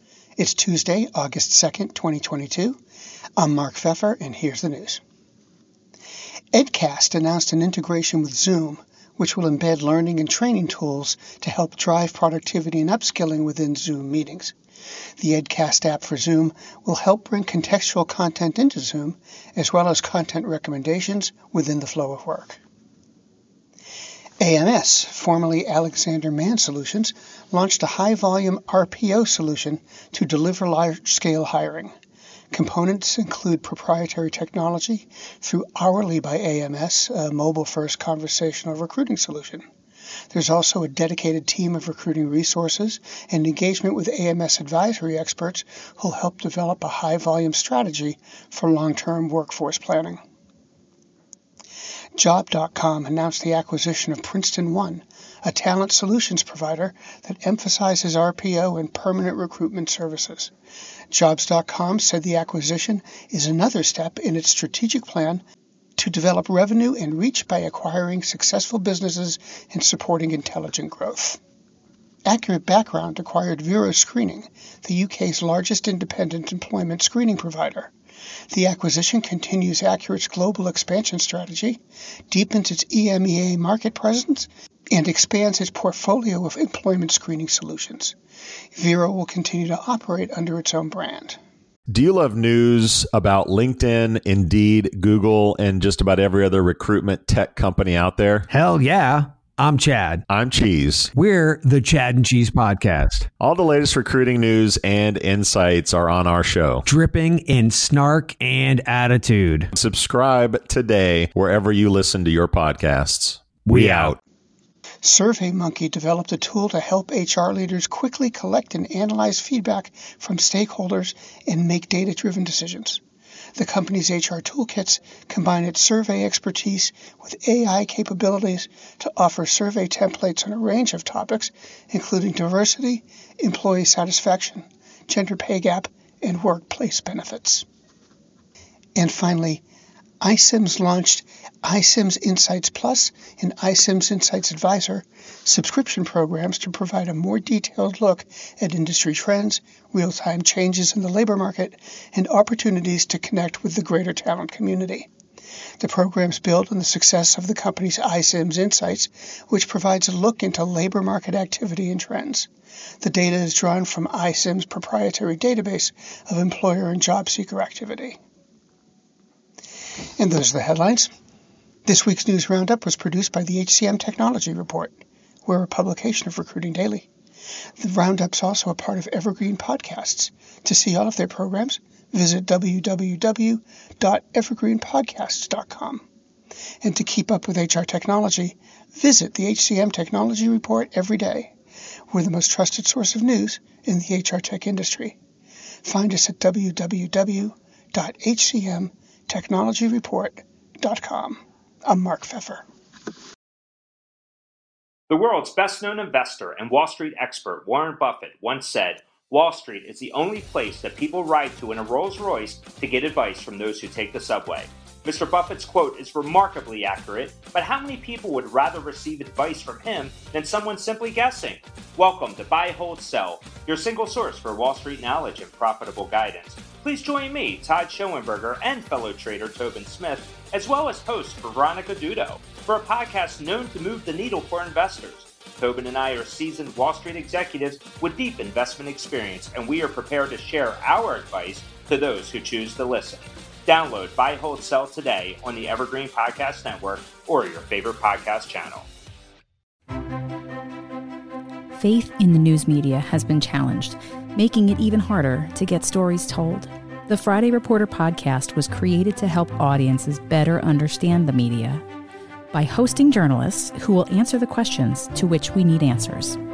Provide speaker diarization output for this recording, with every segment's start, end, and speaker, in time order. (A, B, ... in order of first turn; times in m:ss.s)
0:00.4-0:02.8 A
0:03.4-0:05.0 A
0:06.5-0:14.6 A
0:15.2-0:22.6 A
0:24.4-0:31.9 A
0:32.5-0:39.6 A
0:40.3-0:50.2 A
0:52.2-1:00.5 A
1:01.1-1:05.4 A
1:06.0-1:11.4 A
1:12.2-1:17.9 A
1:18.5-1:21.8 A
1:22.3-1:28.2 A
1:28.7-1:31.4 A
1:31.9-1:38.5 B
1:38.5-1:40.2 C
1:40.3-1:41.1 B
1:41.1-1:43.3 C
1:43.4-1:46.8 B
1:46.8-1:49.7 C
1:49.7-1:54.2 B
1:53.6-1:54.1 C
1:55.0-2:03.0 A
2:03.6-2:17.6 A
2:19.0-2:19.6 A
2:20.2-2:35.1 A
2:35.8-2:42.5 A
2:43.0-2:48.2 A
2:50.2-2:51.1 A
2:51.8-2:57.1 A
2:57.8-3:06.0 A
3:06.8-3:11.5 A
3:12.1-3:15.2 A
3:15.8-3:22.6 A
3:25.1-4:08.9 D
4:11.7-4:21.8 E
4:22.5-4:26.4 E